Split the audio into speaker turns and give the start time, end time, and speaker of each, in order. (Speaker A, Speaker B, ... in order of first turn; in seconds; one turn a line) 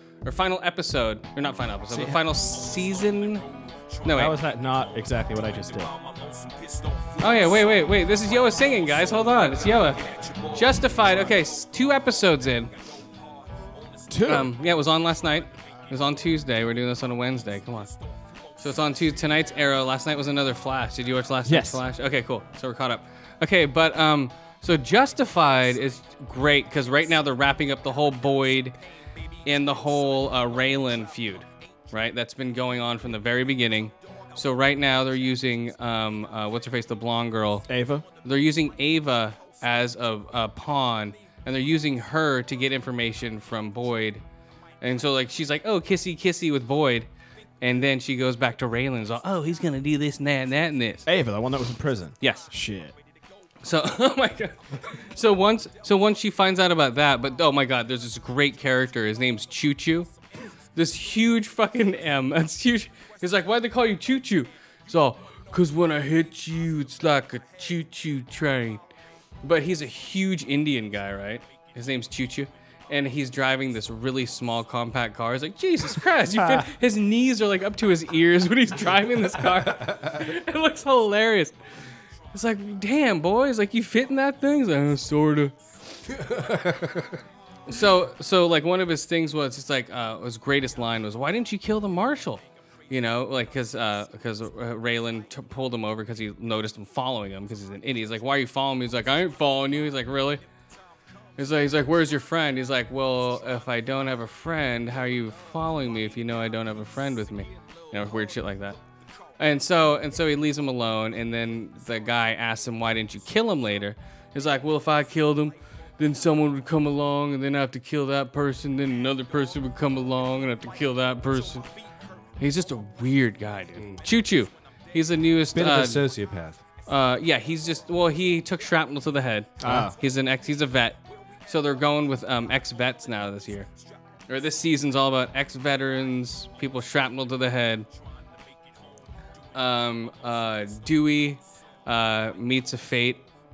Speaker A: 0.2-3.5
Speaker B: 1.9-2.3
Speaker A: 4.0-4.4
Speaker B: 4.1-5.9
Speaker A: 7.2-12.7
Speaker B: 14.1-14.5
Speaker A: 14.2-17.9
Speaker A: 18.6-28.7
Speaker B: 21.4-21.8
Speaker A: 29.4-37.7
Speaker B: 37.7-38.0
Speaker A: 38.2-44.2
Speaker A: 44.8-47.1
Speaker A: 47.6-51.1
Speaker B: 51.0-52.9
Speaker A: 52.2-52.5
Speaker A: 53.6-60.1
Speaker A: 60.7-68.8
Speaker A: 69.4-81.5
Speaker C: 79.7-80.2
Speaker A: 82.3-85.5
Speaker C: 86.1-87.2
Speaker A: 87.7-100.4
Speaker A: 101.4-108.8
Speaker A: 109.4-121.7
Speaker A: 122.4-126.1
Speaker C: 123.8-124.0
Speaker C: 125.5-126.6
Speaker A: 126.8-133.7
Speaker B: 129.6-130.0
Speaker A: 134.3-137.9
Speaker A: 139.5-143.2